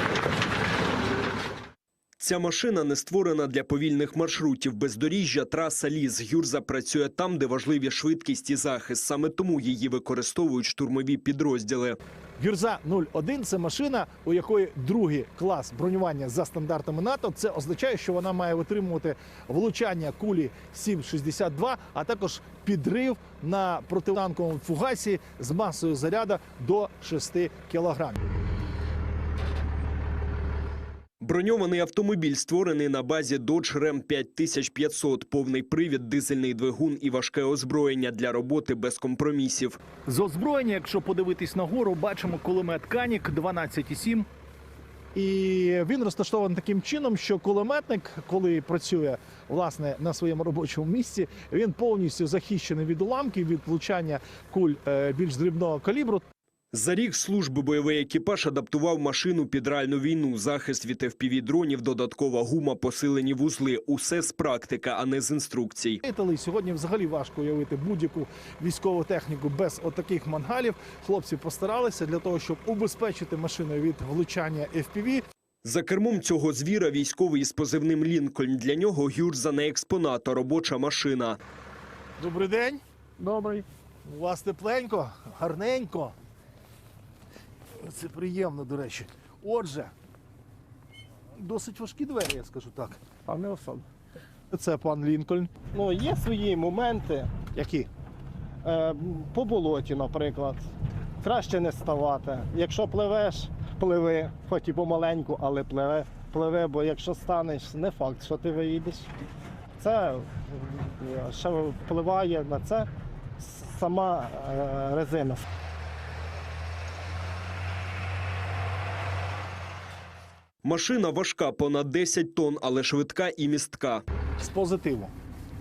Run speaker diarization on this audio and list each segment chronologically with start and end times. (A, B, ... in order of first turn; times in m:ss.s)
0:02.2-0:12.0 A
0:12.4-0:28.2 B
0:31.2-0:39.8 A
0:40.0-0:44.2 B
0:45.1-0:56.2 B
0:56.7-1:06.0 A
1:06.0-1:15.2 B
1:15.6-1:21.4 A
1:22.2-1:22.8 B
1:23.2-1:23.6 C
1:24.0-1:26.1 B
1:27.8-1:29.9 B
1:31.4-1:33.0 B
1:33.2-1:33.8 C
1:34.5-1:35.5 B
1:35.7-1:37.5 C
1:37.5-1:37.9 B
1:38.6-1:40.6 C
1:41.2-1:49.1 C
1:49.8-1:55.4 C
2:00.6-2:04.0 A
2:04.4-2:05.1 B